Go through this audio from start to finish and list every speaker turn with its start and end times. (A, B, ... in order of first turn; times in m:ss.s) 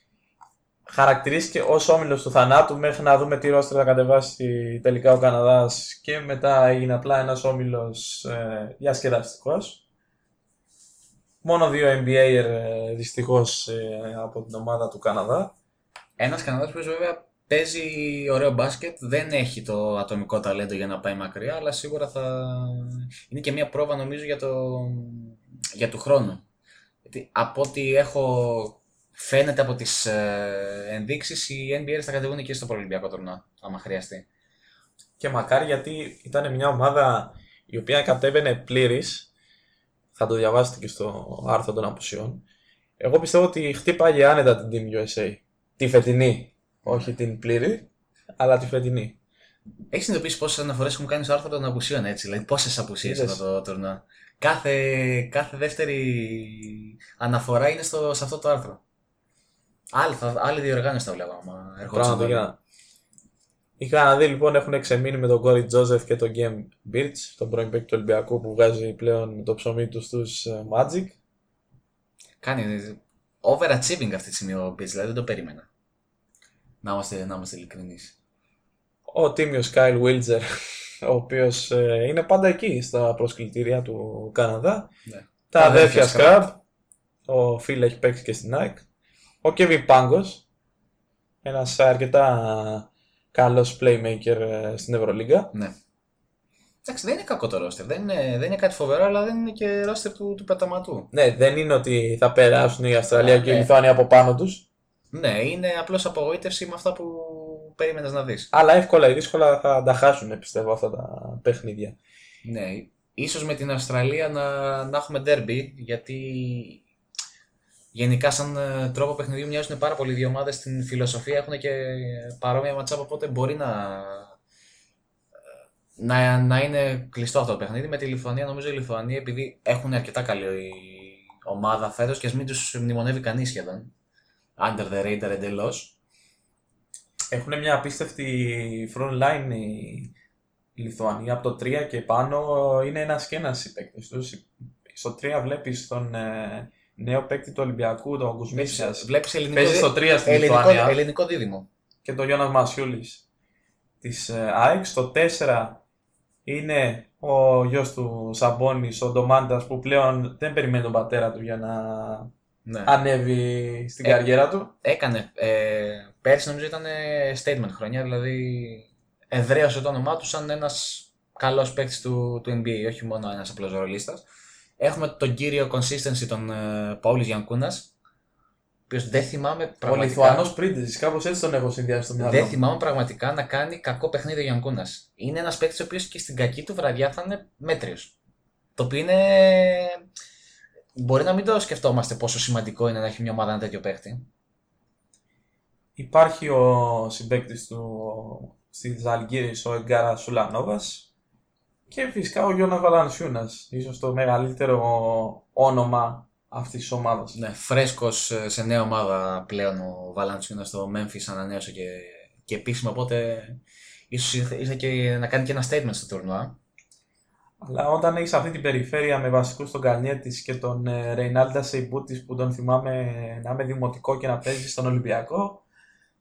0:00.9-0:09.8 A
0:11.4-0:15.5 A
0:16.2-0:26.4 B
0:27.0-0:34.2 B
0:35.2-0:39.3 A
0:40.1-0:42.4 A
0:43.0-0:49.2 A
0:46.8-0:47.1 B
0:49.9-0:58.8 B
0:53.0-0:53.4 A
0:59.9-1:02.5 B
1:01.8-1:02.6 A
1:03.8-1:11.2 A
1:12.4-1:15.7 B
1:16.8-1:18.1 B
1:19.1-1:24.9 A
1:25.1-1:26.5 B
1:25.5-1:26.6 A
1:27.2-1:28.8 A
1:29.4-1:30.4 A
1:31.4-1:35.5 A
1:36.8-1:41.1 B
1:41.1-1:44.6 A
1:43.1-1:43.7 B
1:45.1-1:48.5 B
1:48.5-1:52.0 A
1:52.4-1:56.8 B
1:57.9-2:04.3 B
2:06.0-2:13.9 B
2:14.6-2:15.9 B
2:17.3-2:20.1 A
2:20.8-2:31.0 A
2:28.5-2:31.7 B
2:32.0-2:33.2 A
2:34.0-2:35.8 A
2:36.4-2:42.3 A
2:42.6-2:43.0 B
2:42.8-2:44.7 A
2:44.8-2:54.2 B
2:54.8-2:57.9 B
2:58.9-3:00.5 B
2:59.8-3:02.6 A
3:02.2-3:08.1 B
3:08.8-3:10.0 B
3:10.9-3:14.3 B
3:16.0-3:21.1 A
3:21.9-3:27.4 A
3:27.3-3:33.6 B
3:34.1-3:36.6 B
3:37.6-3:45.6 A